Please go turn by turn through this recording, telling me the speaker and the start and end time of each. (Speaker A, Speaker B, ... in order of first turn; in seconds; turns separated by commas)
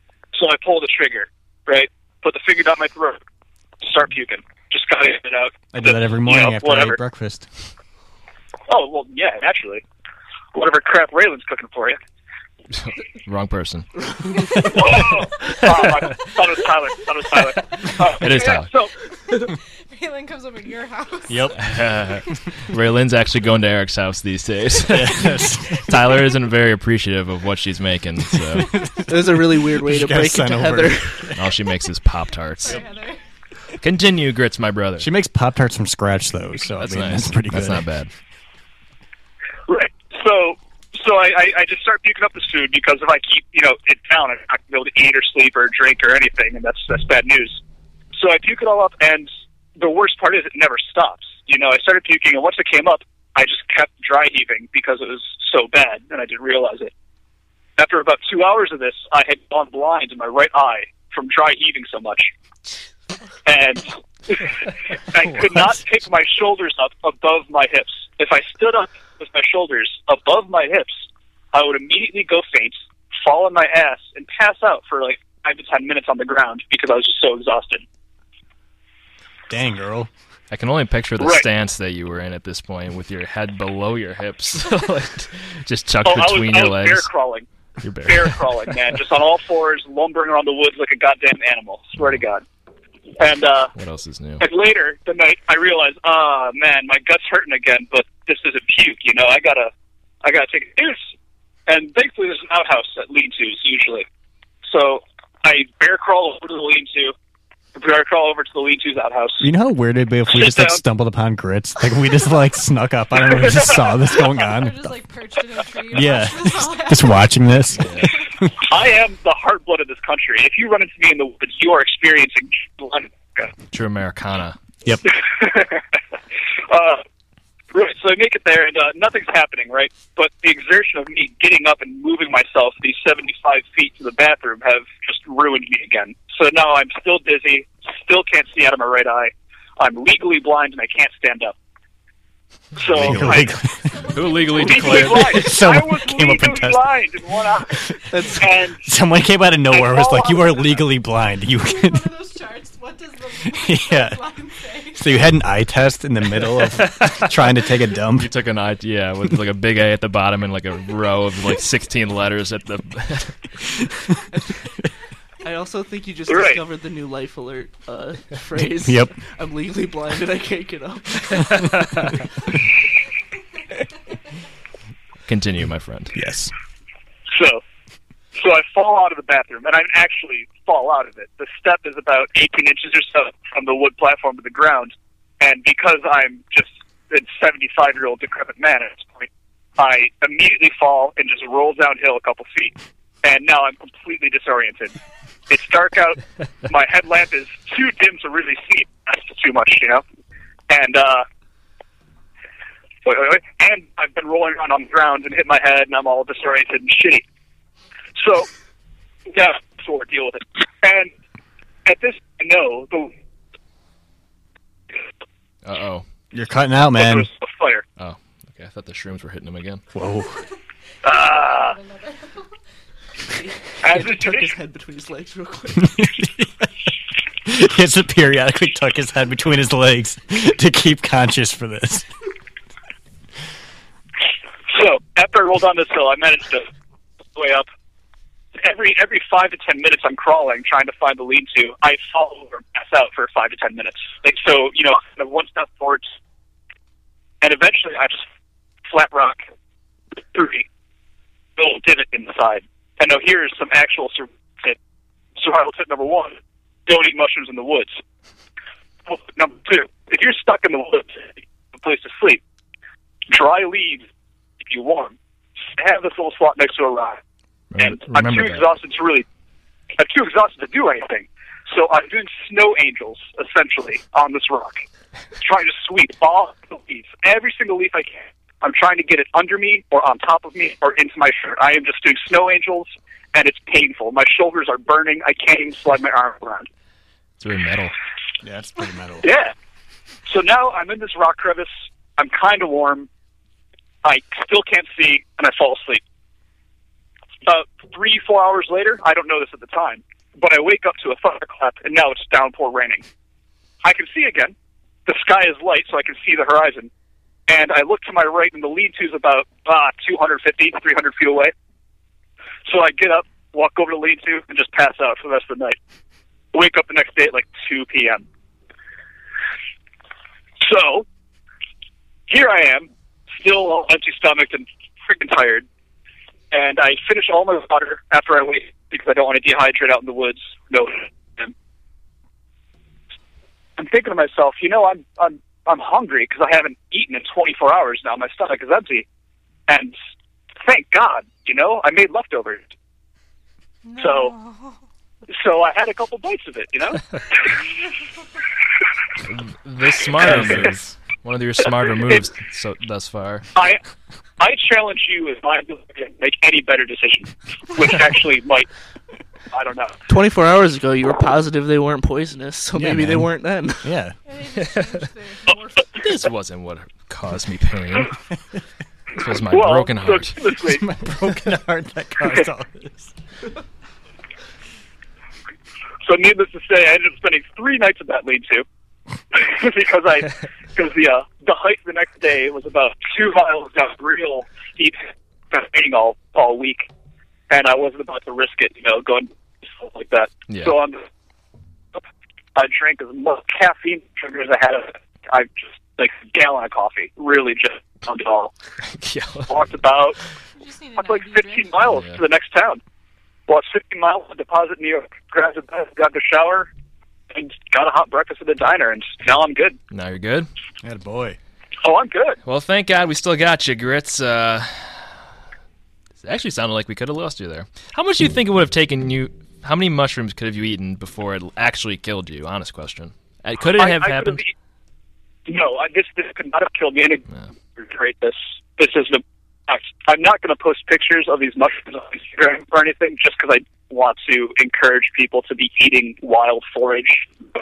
Speaker A: 0.3-3.2, Speaker A: 3.8-7.0, Speaker B: 5.7-7.7, Speaker A: 8.7-9.8, Speaker A: 10.5-12.0, Speaker C: 12.8-13.9, Speaker A: 14.6-18.9, Speaker C: 17.6-18.7, Speaker D: 19.3-21.6, Speaker B: 21.3-21.6, Speaker C: 21.6-25.2, Speaker B: 24.9-26.1, Speaker C: 25.9-28.8, Speaker B: 28.6-31.7, Speaker E: 29.1-31.3, Speaker C: 31.4-32.8, Speaker D: 32.6-33.2, Speaker C: 33.8-35.1, Speaker B: 35.0-37.8, Speaker C: 36.8-38.1, Speaker A: 39.7-47.6, Speaker A: 48.1-56.9, Speaker A: 57.8-62.3, Speaker A: 63.4-77.8, Speaker B: 65.2-65.8, Speaker B: 79.5-80.1, Speaker C: 80.5-87.1, Speaker A: 81.2-81.5, Speaker A: 86.0-87.5, Speaker C: 87.8-88.8, Speaker A: 88.0-92.4, Speaker A: 93.2-93.7, Speaker C: 93.8-94.4, Speaker A: 94.4-99.7, Speaker A: 100.2-101.0, Speaker A: 101.7-104.0, Speaker A: 104.6-107.1, Speaker A: 107.8-109.5, Speaker B: 109.4-115.0, Speaker A: 110.3-110.8, Speaker A: 113.3-113.8, Speaker D: 114.2-118.0, Speaker B: 115.9-118.6, Speaker C: 117.8-118.1, Speaker A: 118.6-123.5, Speaker C: 123.7-124.6, Speaker A: 125.1-125.8, Speaker A: 126.7-127.0, Speaker A: 127.7-141.5, Speaker A: 142.8-143.5, Speaker C: 142.9-143.2, Speaker B: 142.9-144.1, Speaker D: 143.9-145.2, Speaker C: 144.1-145.5, Speaker A: 144.6-148.8, Speaker B: 145.0-146.9, Speaker E: 148.1-148.5, Speaker B: 148.8-152.1, Speaker A: 149.7-150.8, Speaker D: 151.6-155.1, Speaker B: 153.5-154.2, Speaker B: 154.9-158.3, Speaker C: 156.7-157.4, Speaker C: 158.2-163.5, Speaker E: 165.4-171.8, Speaker A: 166.3-166.6, Speaker B: 168.6-169.2, Speaker C: 171.6-172.0, Speaker C: 175.3-176.1, Speaker B: 176.1-176.5, Speaker A: 177.3-177.6, Speaker A: 178.4-195.0, Speaker A: 195.5-200.0, Speaker A: 200.7-201.2, Speaker A: 203.0-207.2, Speaker A: 208.2-208.5, Speaker A: 209.3-211.1, Speaker A: 211.9-213.1, Speaker C: 215.6-216.0, Speaker B: 216.3-217.3, Speaker A: 216.9-217.8, Speaker C: 218.0-219.8, Speaker B: 219.9-220.4, Speaker A: 221.0-221.8, Speaker D: 221.6-222.4, Speaker E: 223.3-226.0, Speaker A: 223.8-224.5, Speaker B: 225.8-226.9, Speaker B: 227.4-232.1, Speaker A: 234.7-236.7, Speaker A: 237.3-237.7, Speaker A: 238.6-246.1, Speaker A: 247.4-248.2, Speaker A: 248.9-249.4, Speaker A: 250.3-250.7, Speaker A: 251.6-254.8, Speaker A: 255.4-256.4, Speaker A: 256.9-258.0, Speaker A: 259.1-262.4, Speaker A: 263.3-264.0, Speaker A: 264.6-265.1, Speaker A: 265.7-267.2, Speaker C: 267.7-268.6, Speaker A: 267.8-269.2, Speaker A: 270.0-274.8, Speaker A: 275.4-286.7, Speaker C: 287.4-287.9, Speaker B: 288.4-289.3, Speaker A: 289.2-289.5, Speaker A: 290.3-293.1, Speaker A: 294.0-296.0, Speaker A: 297.5-303.0, Speaker A: 303.8-304.5, Speaker A: 305.1-306.9, Speaker A: 307.5-311.5, Speaker A: 312.7-315.8, Speaker A: 316.5-318.2, Speaker A: 320.6-321.1, Speaker A: 322.3-325.6, Speaker A: 326.5-331.5, Speaker A: 333.8-339.1, Speaker A: 339.7-339.9, Speaker A: 340.6-342.7, Speaker D: 343.9-344.8, Speaker A: 344.0-344.3, Speaker A: 345.3-347.0, Speaker C: 349.2-353.5, Speaker A: 350.2-350.7, Speaker A: 354.4-358.7, Speaker A: 359.5-360.0, Speaker E: 360.1-364.0, Speaker B: 362.8-364.1, Speaker D: 364.2-366.0, Speaker C: 364.6-364.9, Speaker C: 366.0-368.1, Speaker C: 369.1-370.4, Speaker A: 369.5-370.9, Speaker B: 370.6-373.1, Speaker A: 376.0-378.6, Speaker A: 379.3-386.9, Speaker A: 387.5-391.0, Speaker C: 390.5-390.8, Speaker A: 392.6-398.5, Speaker C: 398.9-399.5, Speaker A: 399.5-400.2, Speaker D: 400.6-401.9, Speaker A: 401.0-402.8, Speaker C: 401.9-402.2, Speaker A: 403.5-406.7, Speaker A: 407.3-409.8, Speaker C: 409.9-410.5, Speaker B: 410.8-411.4, Speaker A: 411.8-412.4, Speaker C: 412.4-415.1, Speaker C: 416.2-424.4, Speaker A: 423.8-424.5, Speaker A: 425.5-437.3